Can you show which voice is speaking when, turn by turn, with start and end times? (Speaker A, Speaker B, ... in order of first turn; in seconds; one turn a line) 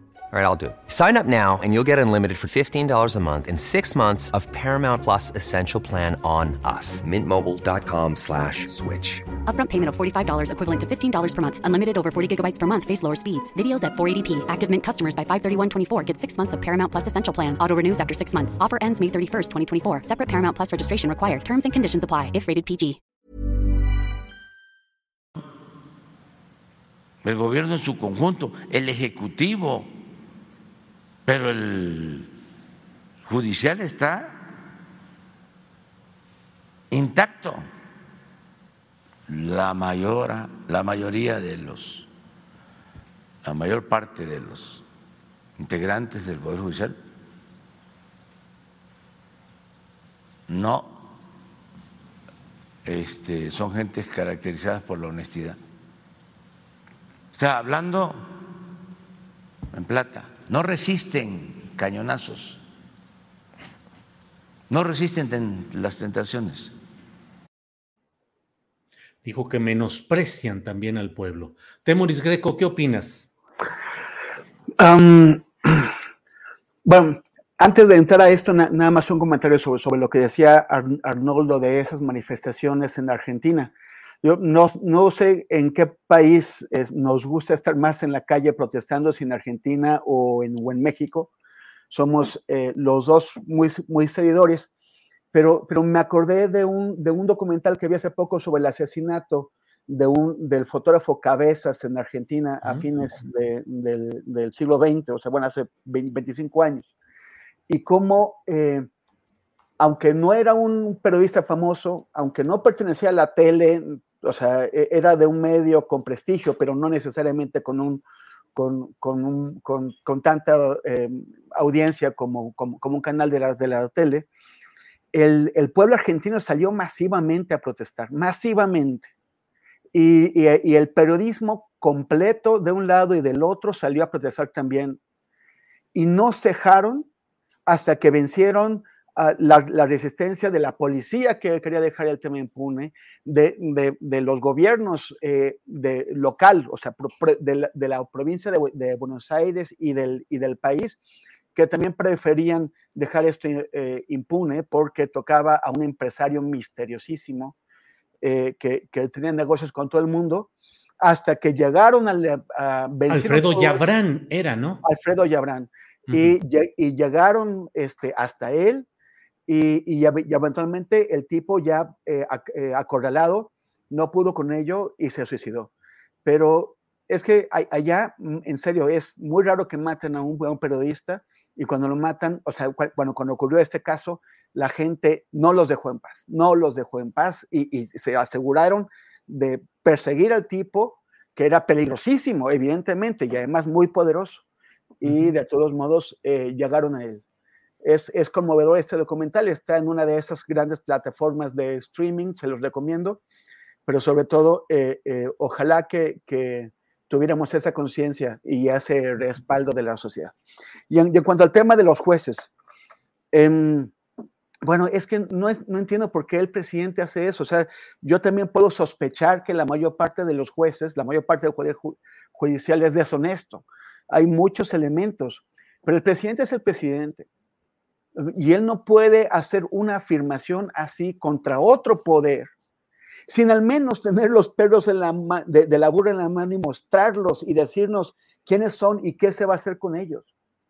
Speaker A: 0.3-9.3
Speaker B: 9.4-23.0
Speaker C: 27.2-29.9
Speaker C: 31.3-32.3
Speaker C: 33.2-34.4
Speaker C: 36.9-37.7
Speaker C: 39.3-42.1
Speaker C: 43.4-44.8
Speaker C: 45.6-47.0
Speaker C: 50.5-51.0
Speaker C: 52.9-55.6
Speaker C: 57.3-58.3
Speaker C: 59.7-62.6
Speaker C: 64.7-66.8
Speaker D: 69.2-73.3
Speaker E: 74.8-75.9
Speaker E: 76.8-83.7
Speaker E: 84.2-91.3
Speaker E: 91.9-94.7
Speaker E: 95.3-106.9
Speaker E: 107.7-108.9
Speaker E: 109.8-118.0
Speaker E: 118.5-124.3
Speaker E: 125.1-129.1
Speaker E: 129.9-135.0
Speaker E: 135.9-137.1
Speaker E: 137.7-151.0
Speaker E: 151.6-157.6
Speaker E: 158.2-160.5
Speaker E: 161.0-163.8
Speaker D: 163.1-164.8
Speaker E: 164.8-168.9
Speaker D: 166.1-166.3
Speaker E: 169.5-175.7
Speaker E: 176.2-194.4
Speaker E: 195.0-197.2
Speaker D: 195.1-195.3
Speaker E: 197.8-203.2
Speaker E: 203.9-210.3
Speaker E: 210.9-212.5
Speaker E: 213.3-213.9
Speaker E: 214.7-227.3
Speaker E: 228.2-232.5
Speaker E: 233.3-240.3